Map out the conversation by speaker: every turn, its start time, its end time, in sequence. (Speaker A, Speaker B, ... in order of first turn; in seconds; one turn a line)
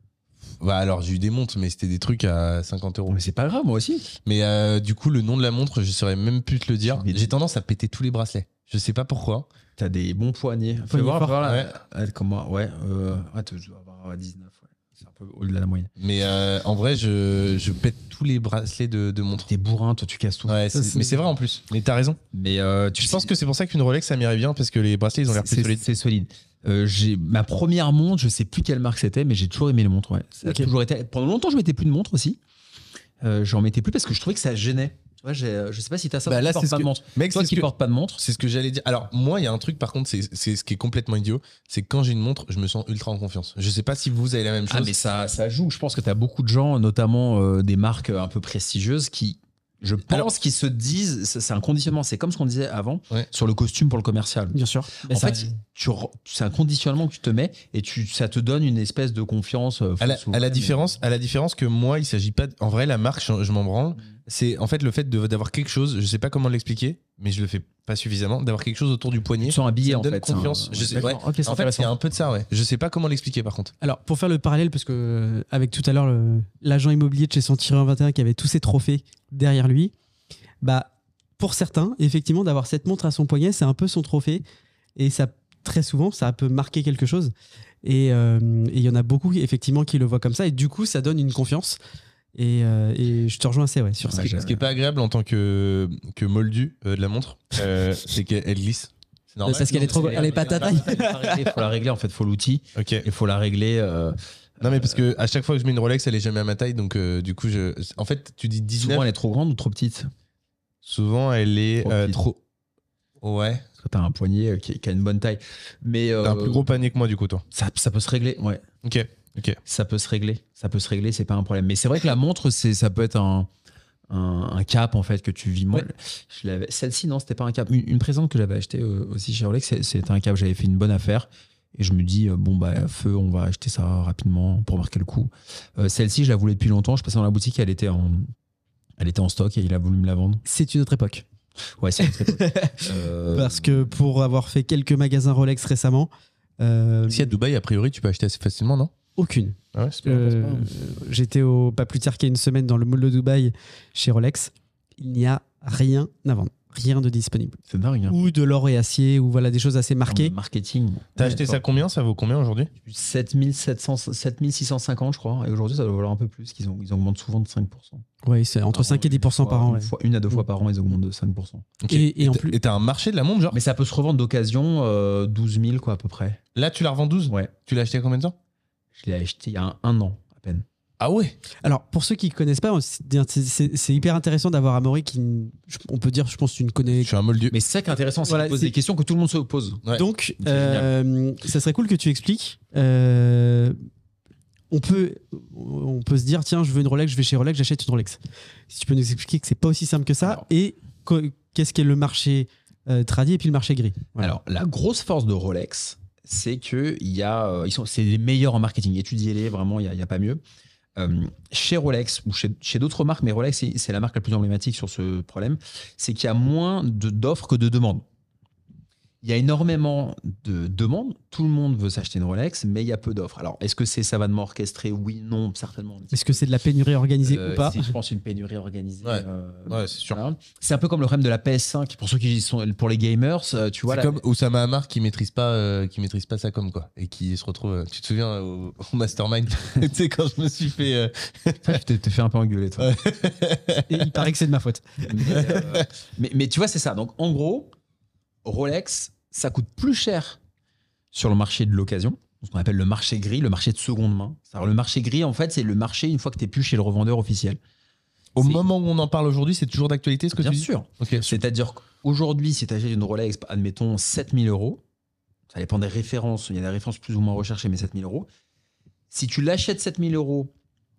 Speaker A: 0.6-3.2
Speaker B: 3.1-4.1
Speaker A: 4.2-9.5
Speaker B: 6.9-7.3
Speaker B: 9.8-15.9
Speaker C: 10.9-11.4
Speaker A: 11.4-11.7
Speaker A: 16.0-19.5
Speaker B: 19.4-21.1
Speaker A: 20.5-22.2
Speaker C: 20.8-21.1
Speaker B: 22.3-23.3
Speaker A: 23.0-25.9
Speaker B: 25.3-32.4
Speaker B: 33.2-38.2
Speaker A: 36.3-37.7
Speaker A: 38.2-44.9
Speaker B: 44.7-60.8
Speaker C: 54.5-55.6
Speaker A: 60.0-73.7
Speaker B: 69.4-71.9
Speaker C: 73.8-79.9
Speaker C: 80.6-84.4
Speaker C: 85.0-87.3
Speaker C: 87.8-91.8
Speaker C: 92.3-94.3
Speaker B: 94.0-94.6
Speaker A: 94.1-101.0
Speaker C: 99.5-101.6
Speaker B: 99.5-105.0
Speaker A: 102.8-103.0
Speaker A: 104.6-109.0
Speaker B: 108.8-110.1
Speaker A: 110.8-112.4
Speaker B: 111.8-112.2
Speaker A: 113.2-113.7
Speaker B: 113.8-116.7
Speaker A: 116.2-117.4
Speaker B: 117.5-118.6
Speaker A: 118.8-119.6
Speaker B: 119.7-123.5
Speaker B: 124.1-138.3
Speaker B: 139.0-140.4
Speaker C: 140.4-141.2
Speaker B: 141.8-143.9
Speaker C: 142.0-147.3
Speaker A: 147.1-148.9
Speaker C: 149.2-160.3
Speaker A: 149.7-150.0
Speaker B: 150.0-150.7
Speaker B: 157.7-158.2
Speaker B: 160.1-161.6
Speaker A: 161.2-162.7
Speaker B: 162.8-168.0
Speaker C: 168.2-170.4
Speaker B: 168.7-171.7
Speaker A: 171.8-173.6
Speaker C: 171.9-172.6
Speaker B: 173.5-176.4
Speaker A: 176.6-178.3
Speaker B: 178.9-180.7
Speaker A: 181.0-181.4
Speaker C: 181.6-187.1
Speaker A: 187.0-187.6
Speaker B: 187.5-189.8
Speaker C: 188.3-188.7
Speaker C: 189.9-193.8
Speaker B: 190.4-190.9
Speaker C: 194.7-204.3
Speaker B: 204.2-210.4
Speaker B: 211.0-218.1
Speaker B: 219.2-226.5
Speaker C: 226.1-227.9
Speaker B: 227.2-234.2
Speaker A: 229.1-230.2
Speaker A: 233.9-241.8
Speaker B: 241.6-242.9
Speaker A: 242.8-244.2
Speaker C: 243.9-245.4
Speaker B: 245.0-247.7
Speaker A: 245.3-245.9
Speaker B: 248.4-250.4
Speaker B: 251.1-257.6
Speaker A: 258.4-261.4
Speaker B: 258.4-258.6
Speaker B: 260.4-264.8
Speaker B: 265.5-268.3
Speaker B: 269.1-270.5